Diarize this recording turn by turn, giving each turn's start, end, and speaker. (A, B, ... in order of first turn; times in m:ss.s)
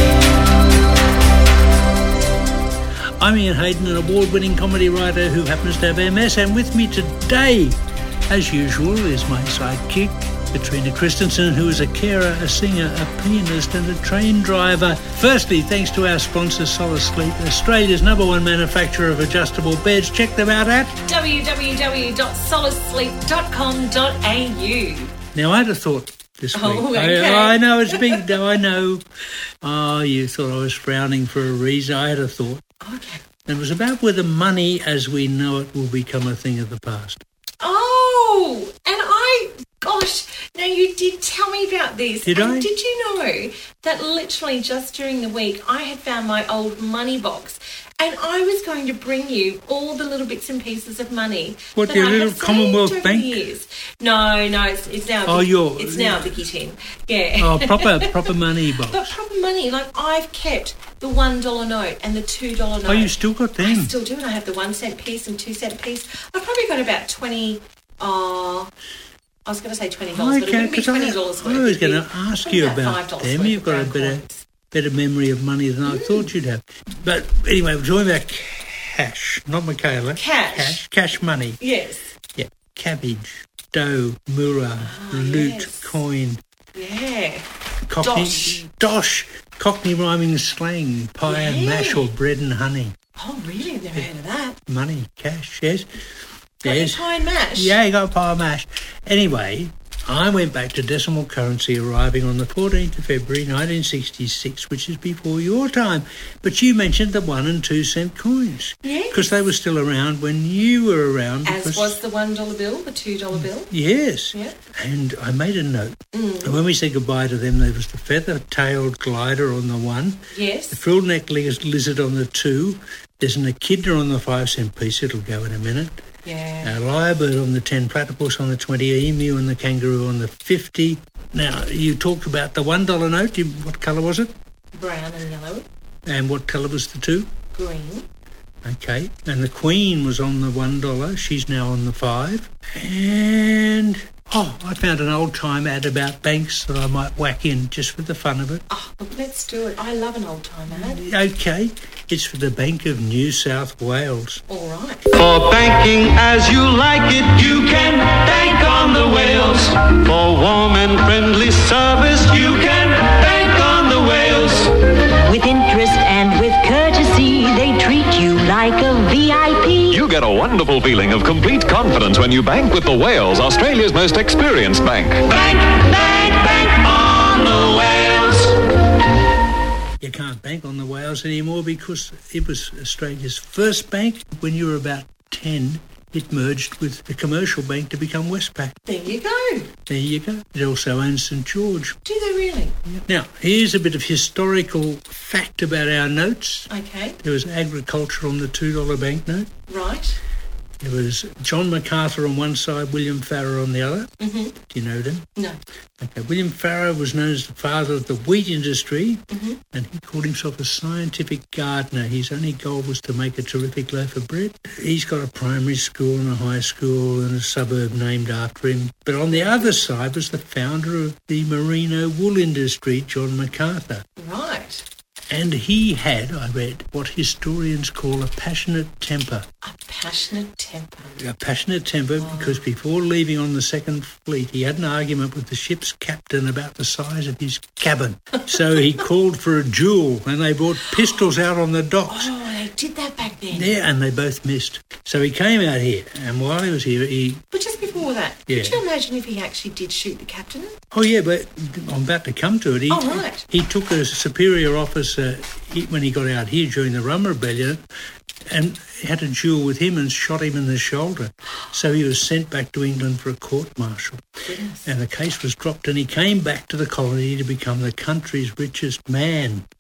0:03.2-0:21.0 A
0:21.1-0:25.1 B
0:25.3-0:29.0 A
0:26.5-0:28.3 B
0:29.6-0:32.6 A
0:32.8-0:33.2 B
0:33.5-0:37.2 A
0:37.6-0:58.3 B
0:42.2-0:42.7 A
0:51.8-0:53.4 A
0:55.3-0:56.4 A
0:57.4-0:59.2 A
0:58.9-1:08.7 B
1:02.9-1:03.9 A
1:09.4-1:14.4 B
1:10.1-1:21.6 A
1:15.9-1:16.3 B
1:20.2-1:20.8 B
1:21.6-1:22.1 B
1:22.4-1:26.4 A
1:24.8-1:26.0 B
1:26.8-1:27.5 B
1:27.9-1:33.0 A
1:28.0-1:28.6 B
1:31.2-1:32.1 B
1:33.2-1:34.6 B
1:34.7-1:35.9 A
1:36.6-1:52.0 A
1:36.6-1:37.8 B
1:48.8-1:49.4 B
1:51.4-1:53.7 B
1:53.7-2:00.2 A
1:56.1-1:56.5 B
2:00.3-2:00.8 B
2:00.7-2:05.9 A
2:06.2-2:06.7 B
2:06.6-2:14.3 A
2:14.8-2:15.6 B
2:16.1-2:17.3 A
2:17.5-2:18.1 B
2:18.6-2:28.6 A
2:28.7-2:31.0 B
2:30.7-2:34.4 A
2:34.5-2:35.1 B
2:35.1-2:44.7 C
2:45.2-2:50.0 D
2:49.9-2:55.3 E
2:55.4-2:56.2 C
3:00.0-3:08.8 A
3:08.9-3:09.7 B
3:09.9-3:12.0 A
3:12.1-3:12.8 B
3:13.1-3:16.7 A
3:16.7-3:17.2 B
3:17.2-3:19.5 A
3:19.7-3:20.2 B
3:20.8-3:25.3 A
3:24.2-3:24.6 B
3:26.0-3:44.0 A
3:29.3-3:29.6 B
3:44.2-3:44.8 B
3:45.3-3:49.5 A
3:49.6-3:51.2 B
3:51.2-4:02.3 A
3:52.2-3:52.6 B
4:02.1-4:03.7 B
4:03.5-4:07.4 A
4:07.5-4:10.8 B
4:08.5-4:08.8 A
4:10.9-4:17.8 A
4:12.9-4:13.4 B
4:18.5-4:24.2 A
4:24.5-4:24.9 B
4:24.9-4:29.6 A